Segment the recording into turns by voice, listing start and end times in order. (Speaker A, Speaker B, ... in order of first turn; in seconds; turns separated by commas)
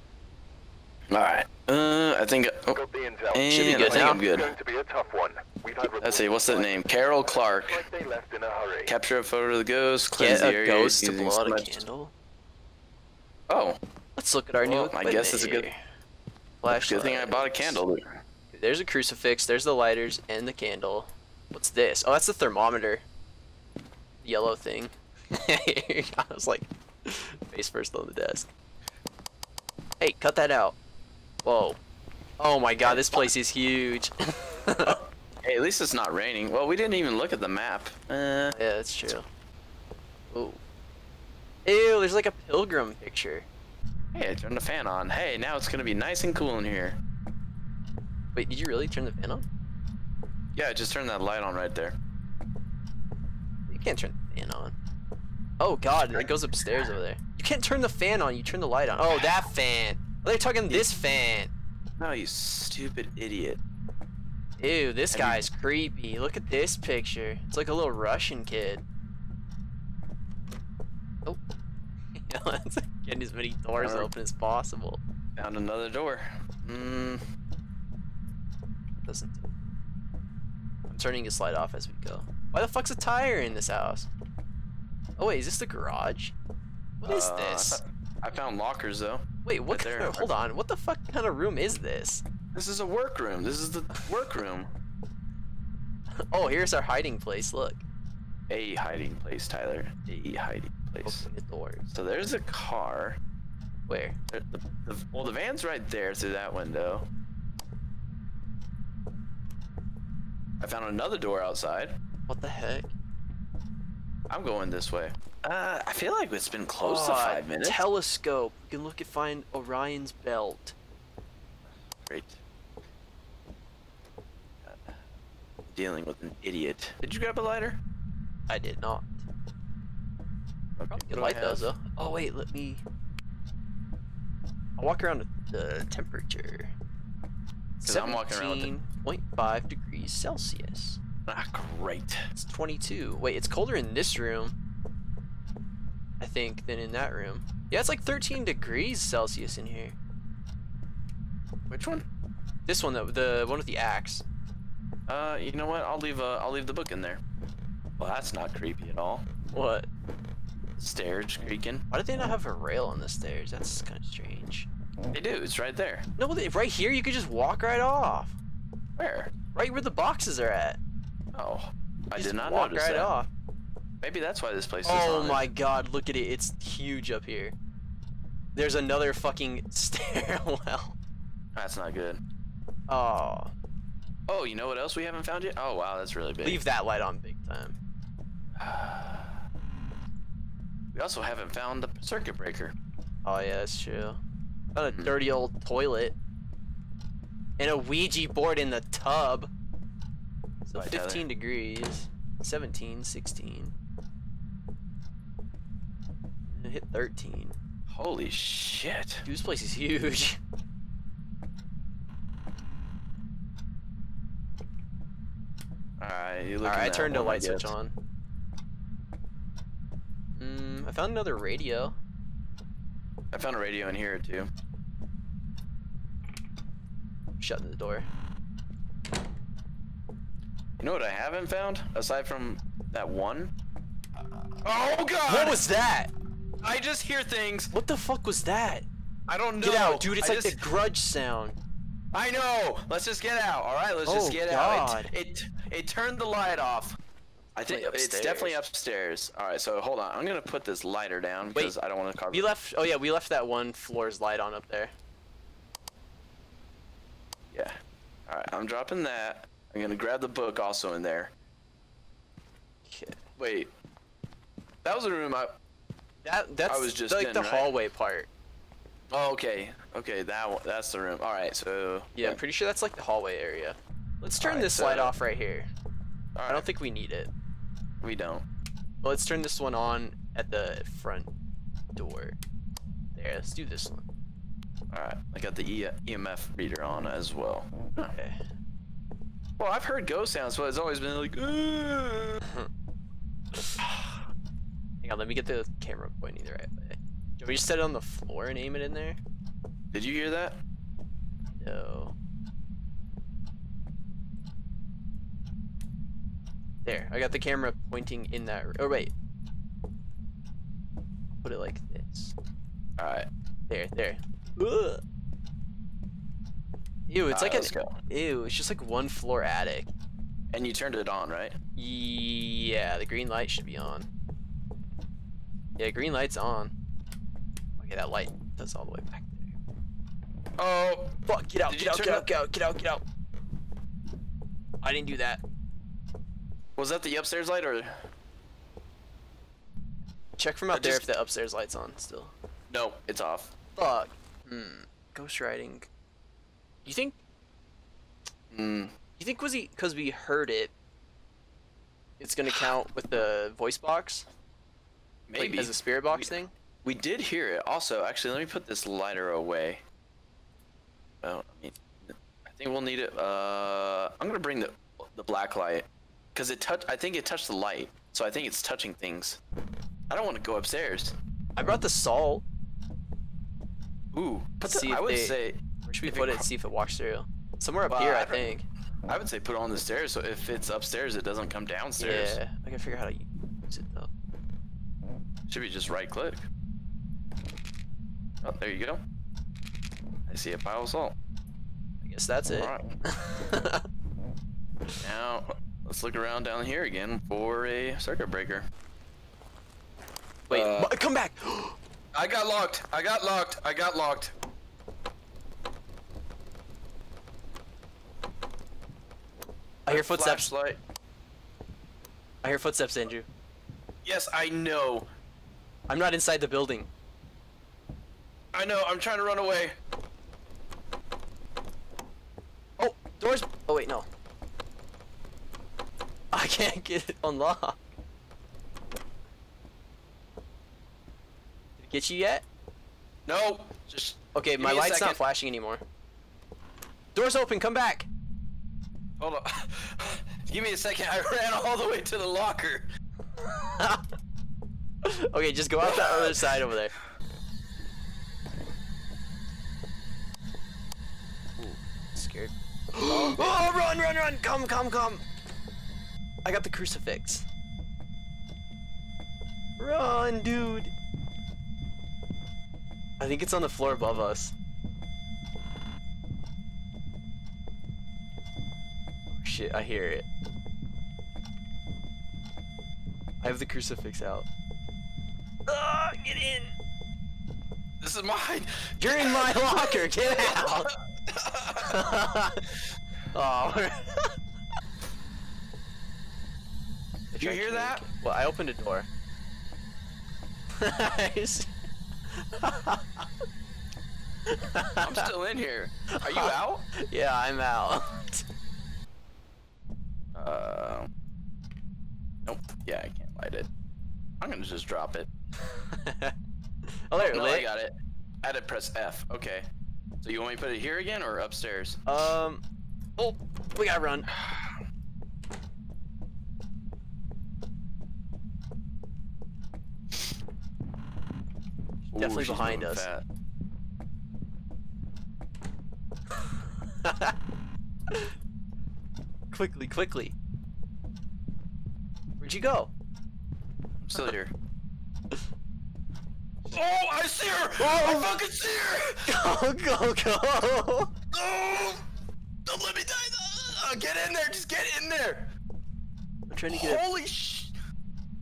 Speaker A: 1.1-2.8, Speaker B: 2.8-6.8, Speaker A: 3.3-4.5, Speaker C: 3.5-4.2, Speaker A: 6.0-7.8, Speaker B: 7.8-8.9, Speaker A: 8.8-11.8, Speaker C: 10.1-12.1, Speaker A: 13.5-13.8, Speaker C: 14.2-15.8, Speaker A: 14.6-15.7, Speaker C: 16.6-17.8, Speaker A: 16.7-18.0, Speaker C: 18.5-23.0, Speaker C: 24.2-28.5, Speaker C: 30.0-30.8, Speaker C: 31.4-31.8, Speaker C: 32.4-35.0, Speaker A: 32.8-33.3, Speaker A: 34.8-38.5, Speaker C: 38.5-39.2, Speaker C: 40.3-40.6, Speaker C: 41.6-43.5, Speaker A: 44.1-47.0, Speaker C: 48.3-49.5, Speaker A: 50.5-52.0, Speaker C: 53.7-54.7, Speaker C: 55.6-61.5, Speaker A: 62.0-63.6, Speaker C: 64.6-68.8, Speaker A: 65.1-65.4, Speaker C: 72.1-75.0, Speaker A: 73.8-74.1, Speaker A: 75.3-77.2, Speaker C: 79.0-79.5, Speaker C: 80.9-84.1, Speaker C: 85.2-86.3, Speaker C: 87.0-87.8, Speaker A: 87.0-90.3, Speaker C: 89.4-92.2, Speaker A: 92.5-94.7, Speaker C: 96.3-97.8, Speaker A: 98.5-101.3, Speaker C: 101.0-101.9, Speaker A: 101.9-103.2, Speaker C: 103.9-104.2, Speaker A: 104.3-107.1, Speaker A: 110.6-111.9, Speaker C: 112.3-112.9, Speaker A: 114.3-117.8, Speaker C: 116.8-120.7, Speaker A: 122.0-122.4, Speaker A: 124.6-125.0, Speaker A: 125.7-127.8, Speaker C: 128.5-129.2, Speaker A: 130.8-131.7, Speaker C: 130.9-132.8, Speaker C: 134.8-136.7, Speaker C: 137.8-141.0, Speaker A: 137.8-138.7, Speaker A: 141.3-142.2, Speaker C: 142.3-144.5, Speaker C: 146.2-149.9, Speaker A: 151.7-152.0, Speaker C: 152.7-154.2, Speaker A: 155.1-157.2, Speaker A: 158.0-159.2, Speaker C: 159.5-159.9, Speaker A: 160.8-161.8, Speaker C: 161.9-164.7, Speaker A: 165.1-166.1, Speaker C: 166.2-168.4, Speaker A: 169.0-169.3, Speaker C: 169.5-170.8, Speaker A: 171.3-173.1, Speaker C: 172.1-173.3, Speaker A: 174.0-175.5, Speaker C: 174.8-177.6, Speaker C: 178.6-180.9, Speaker A: 181.5-182.2, Speaker C: 182.9-183.5, Speaker A: 184.3-186.6, Speaker C: 186.4-187.8, Speaker A: 188.6-189.4, Speaker A: 190.9-192.7, Speaker C: 193.2-194.2, Speaker C: 194.7-196.2, Speaker A: 194.9-195.1, Speaker C: 197.6-199.5, Speaker C: 200.6-203.7, Speaker A: 200.7-201.2, Speaker C: 206.5-207.5, Speaker A: 207.9-209.2, Speaker C: 209.2-210.4, Speaker A: 216.0-217.7, Speaker C: 216.6-217.9, Speaker C: 220.3-222.0, Speaker A: 223.3-224.5, Speaker C: 227.4-228.1, Speaker A: 230.8-233.5, Speaker A: 234.6-235.6, Speaker C: 235.2-236.1, Speaker A: 236.6-237.7, Speaker C: 237.7-238.9, Speaker A: 239.3-240.7, Speaker C: 239.6-241.6, Speaker A: 242.1-247.0, Speaker C: 244.1-245.1, Speaker C: 247.5-248.6, Speaker A: 247.6-252.5, Speaker C: 252.3-254.9, Speaker A: 257.5-257.8, Speaker A: 258.3-261.3, Speaker C: 262.9-263.2, Speaker A: 263.4-263.7, Speaker A: 264.8-265.5, Speaker C: 266.2-268.3, Speaker A: 266.6-267.7, Speaker A: 269.1-272.4, Speaker C: 272.1-275.7, Speaker A: 274.4-275.1, Speaker A: 276.4-276.7, Speaker C: 276.5-277.3, Speaker A: 278.0-278.4, Speaker C: 279.0-281.3, Speaker C: 281.9-282.4, Speaker C: 283.1-284.0, Speaker A: 284.9-288.1, Speaker C: 288.1-288.4, Speaker A: 289.6-292.4, Speaker C: 293.5-293.8, Speaker C: 295.0-299.2, Speaker A: 299.9-300.6, Speaker C: 301.6-302.1, Speaker C: 306.8-309.1, Speaker C: 311.4-312.3, Speaker A: 313.0-313.3, Speaker C: 313.7-315.0, Speaker C: 317.1-319.9, Speaker A: 317.3-317.9, Speaker A: 320.5-321.6, Speaker C: 321.8-324.1, Speaker C: 325.8-326.7, Speaker C: 327.8-329.5, Speaker A: 330.6-331.1, Speaker C: 331.2-333.0, Speaker A: 331.7-332.3, Speaker C: 334.8-335.4, Speaker A: 336.8-337.9, Speaker C: 340.4-342.3, Speaker A: 340.7-341.1, Speaker A: 342.7-343.5, Speaker C: 343.8-345.9, Speaker C: 346.8-347.2, Speaker A: 348.5-348.9, Speaker C: 349.2-350.7, Speaker C: 352.2-354.3, Speaker A: 355.3-359.8, Speaker C: 355.4-356.5, Speaker A: 361.2-369.4, Speaker A: 370.1-371.1, Speaker C: 371.6-372.4, Speaker A: 374.1-376.4, Speaker C: 374.6-378.6, Speaker A: 377.9-378.5, Speaker A: 379.1-382.4, Speaker C: 382.0-384.1, Speaker A: 385.5-386.4, Speaker A: 388.4-389.0, Speaker A: 390.3-391.1, Speaker C: 392.0-393.9, Speaker A: 392.6-392.8, Speaker A: 395.0-398.7, Speaker C: 400.5-401.8, Speaker A: 400.5-400.9, Speaker A: 402.1-404.3, Speaker C: 409.9-410.5, Speaker A: 409.9-410.8, Speaker C: 412.4-413.3, Speaker A: 414.0-415.1, Speaker C: 415.9-416.9, Speaker A: 418.5-419.8, Speaker C: 422.8-424.1, Speaker C: 426.3-427.8, Speaker C: 431.8-432.4, Speaker A: 433.2-435.2, Speaker C: 434.3-435.8, Speaker C: 437.1-438.1, Speaker A: 439.2-442.9, Speaker C: 443.4-444.1, Speaker C: 445.0-446.9, Speaker A: 445.8-446.4, Speaker C: 451.6-455.2, Speaker C: 456.4-457.4, Speaker C: 459.8-460.9, Speaker C: 463.2-464.5, Speaker C: 469.3-470.3, Speaker C: 473.4-474.5, Speaker C: 475.7-476.7, Speaker A: 478.0-482.1, Speaker C: 479.0-480.9, Speaker C: 481.7-482.7, Speaker C: 483.3-484.4, Speaker C: 487.3-489.1, Speaker A: 487.4-488.0, Speaker C: 490.8-491.7, Speaker C: 492.3-493.2, Speaker C: 494.5-495.3, Speaker A: 495.0-496.9, Speaker C: 496.1-498.4, Speaker A: 500.3-501.1, Speaker A: 502.4-503.7, Speaker A: 504.4-505.3, Speaker C: 505.8-506.3, Speaker C: 506.9-507.6, Speaker A: 507.2-509.7, Speaker A: 510.2-512.0, Speaker C: 512.1-512.6, Speaker C: 513.2-514.3, Speaker A: 514.4-514.7, Speaker C: 522.1-523.1, Speaker A: 522.1-523.2, Speaker C: 526.4-527.4, Speaker C: 529.5-530.3, Speaker C: 532.4-532.9, Speaker A: 534.0-534.5, Speaker A: 536.7-539.4, Speaker C: 537.8-538.4, Speaker C: 539.2-541.1, Speaker A: 541.3-542.0, Speaker A: 542.6-545.5, Speaker C: 546.5-547.0, Speaker A: 546.7-547.7